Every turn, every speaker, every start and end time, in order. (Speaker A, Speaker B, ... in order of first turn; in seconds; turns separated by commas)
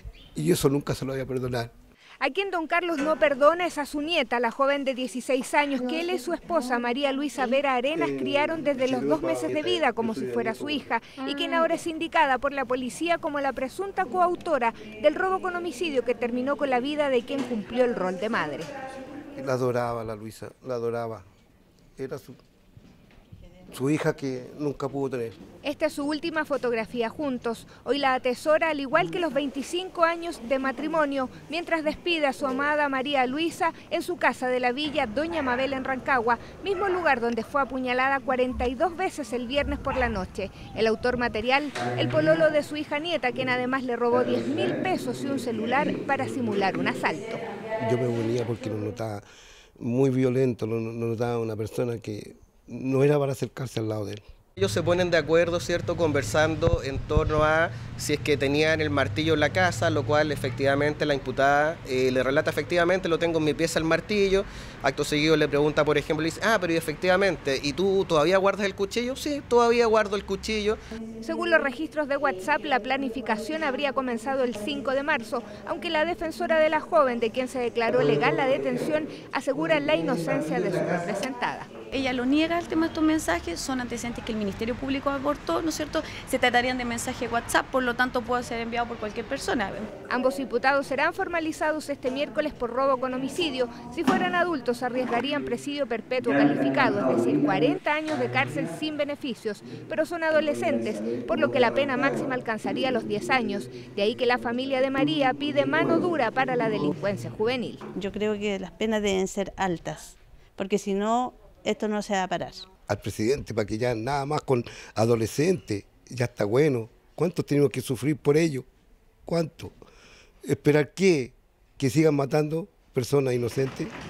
Speaker A: 0.3-1.7, Speaker B: 2.2-18.7, Speaker A: 7.9-10.9, Speaker A: 19.4-21.3, Speaker A: 22.0-22.4, Speaker A: 23.7-25.4, Speaker B: 25.6-47.4, Speaker A: 47.8-49.2, Speaker A: 49.8-54.2, Speaker C: 54.6-70.8, Speaker B: 71.2-81.7, Speaker D: 81.9-89.9, Speaker B: 90.1-107.8, Speaker E: 107.9-112.7, Speaker A: 112.9-118.7, Speaker A: 119.3-119.8, Speaker A: 120.5-123.9